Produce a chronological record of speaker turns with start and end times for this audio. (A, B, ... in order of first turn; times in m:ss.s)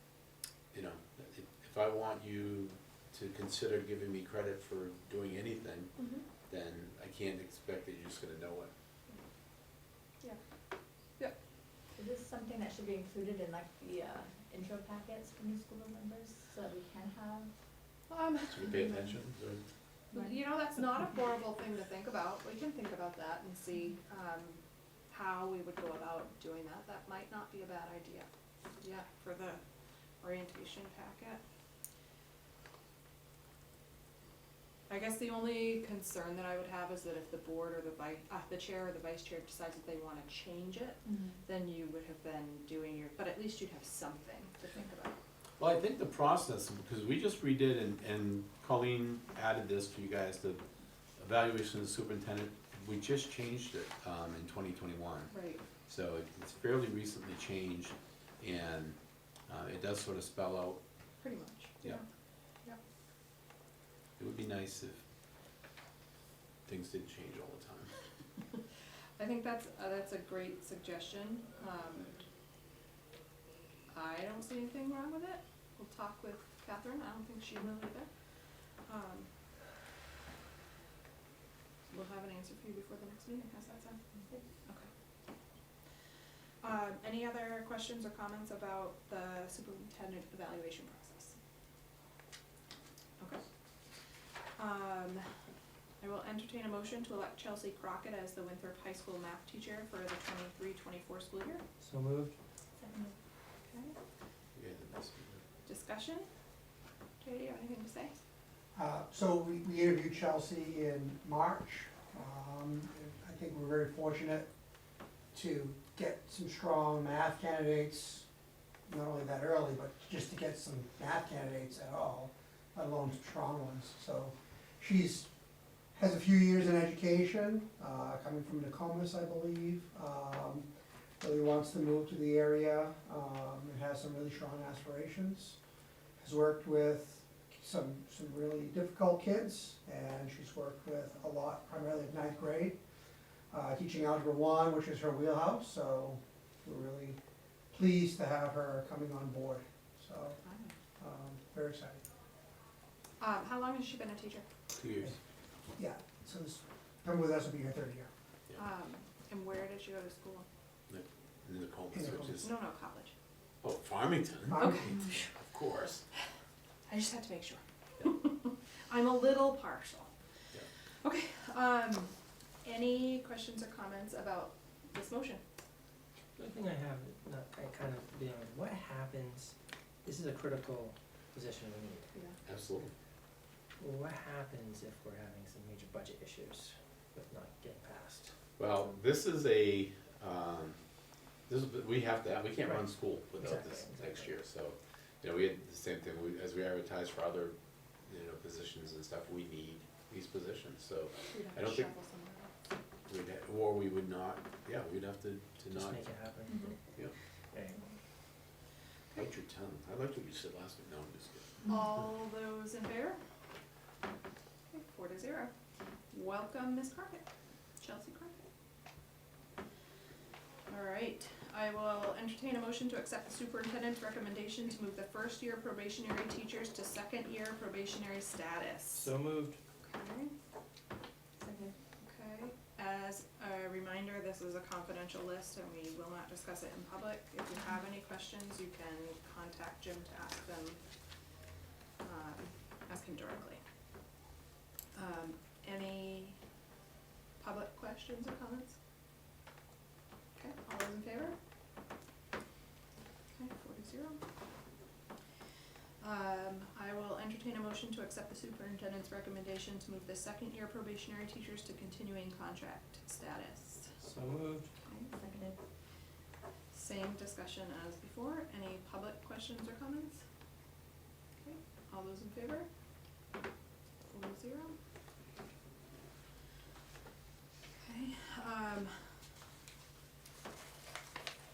0:00.7-0:05.9 A
0:06.0-0:06.2 B
0:06.5-0:08.7 A
0:12.0-0:17.5 C
0:18.1-0:19.1 B
0:18.5-0:19.6 A
0:20.1-0:28.3 B
0:28.8-0:29.6 B
0:30.2-0:31.4 B
0:34.9-0:45.1 B
0:41.0-0:41.4 C
0:45.6-0:50.6 A
0:51.2-0:55.3 A
0:55.3-0:55.6 B
0:55.9-0:59.0 A
0:59.5-1:00.8 A
1:01.2-1:02.0 B
1:04.2-1:05.0 A
1:06.7-1:07.9 A
1:09.2-1:12.2 B
1:13.9-1:18.1 B
1:18.9-1:19.3 B
1:21.9-1:24.0 B
1:26.6-1:31.4 B
1:34.6-1:35.2 B
1:36.0-1:41.6 B
1:41.8-1:42.4 D
1:42.8-1:43.2 C
1:43.7-1:43.9 B
1:44.6-1:45.4 A
1:45.6-1:46.3 B
1:47.2-1:48.2 B
1:48.7-1:54.5 E
1:55.3-1:58.2 E
1:58.9-2:05.3 E
2:06.0-2:10.7 E
2:11.2-2:15.6 E
2:16.2-2:22.8 E
2:23.5-2:27.2 E
2:27.7-2:30.4 E
2:30.4-2:30.7 B
2:31.0-2:32.0 E
2:33.2-2:34.5 B
2:34.8-2:35.2 A
2:35.8-2:38.1 E
2:38.6-2:40.5 B
2:40.9-2:42.5 A
2:41.9-2:42.4 E
2:42.4-2:43.1 B
2:43.6-2:46.0 A
2:44.5-2:45.0 E
2:44.6-2:45.3 B
2:46.9-2:50.1 B
2:51.0-2:52.1 B
2:52.6-2:55.4 B
2:56.4-2:59.5 D
3:00.0-3:02.1 D
3:02.5-3:02.9 A
3:03.8-3:08.3 D
3:08.6-3:10.8 A
3:11.5-3:21.9 A
3:12.6-3:14.3 D
3:21.3-3:22.5 B
3:23.1-3:26.1 A
3:25.7-3:26.8 D
3:26.5-3:26.8 B
3:27.5-3:27.9 D
3:29.1-3:31.6 A
3:31.6-3:33.2 B
3:34.7-3:35.5 B
3:36.1-3:37.2 B
3:37.8-3:38.4 B
3:40.7-3:49.1 B
3:48.9-3:49.6 D
3:49.8-3:50.3 B
3:51.4-3:51.7 C
3:52.0-4:00.8 B
4:02.0-4:03.6 B
4:05.0-4:06.4 B
4:07.4-4:08.8 B
4:10.4-4:11.3 B
4:13.3-4:14.2 B
4:16.0-4:23.9 B
4:24.0-4:24.7 D
4:24.8-4:25.4 B
4:25.1-4:25.6 C
4:26.7-4:30.2 B
4:31.4-4:32.7 B
4:34.1-4:34.8 B
4:37.8-4:38.9 B